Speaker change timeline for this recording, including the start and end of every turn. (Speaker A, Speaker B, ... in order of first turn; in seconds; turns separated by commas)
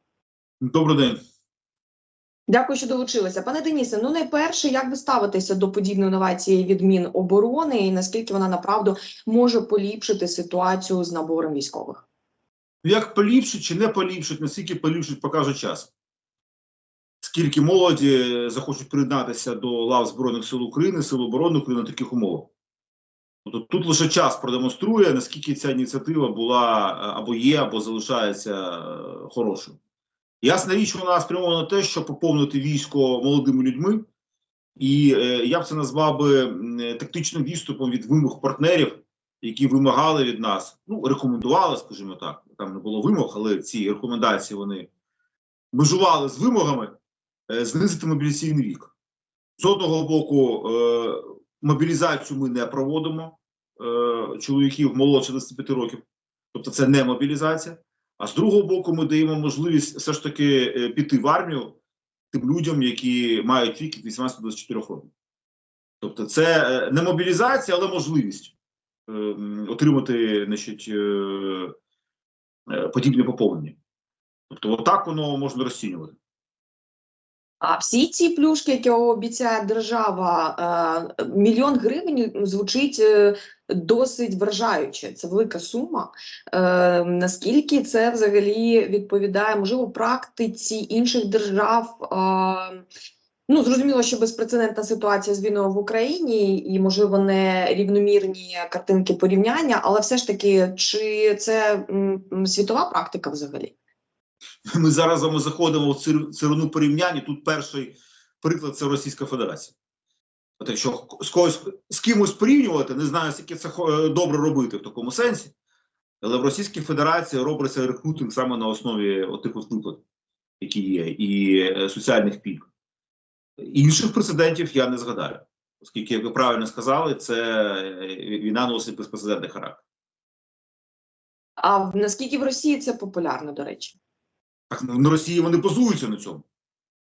Speaker A: 0.6-1.2, Speaker B: 2.5-12.1, Speaker A: 12.8-15.9, Speaker A: 17.2-22.5, Speaker A: 23.4-29.8, Speaker A: 30.4-34.0, Speaker A: 34.8-44.9, Speaker A: 45.7-46.9, Speaker A: 47.5-48.9, Speaker A: 49.6-56.0, Speaker A: 56.5-61.8, Speaker A: 62.3-65.1, Speaker A: 66.0-68.5, Speaker A: 69.1-71.7, Speaker A: 72.7-73.8, Speaker A: 74.5-76.2, Speaker B: 77.6-92.8, Speaker B: 93.5-103.7, Speaker A: 104.8-109.8, Speaker A: 110.6-115.5, Speaker A: 116.2-120.0, Speaker A: 120.6-122.7, Speaker A: 123.6-129.8, Speaker B: 131.6-134.0, Speaker A: 134.7-136.4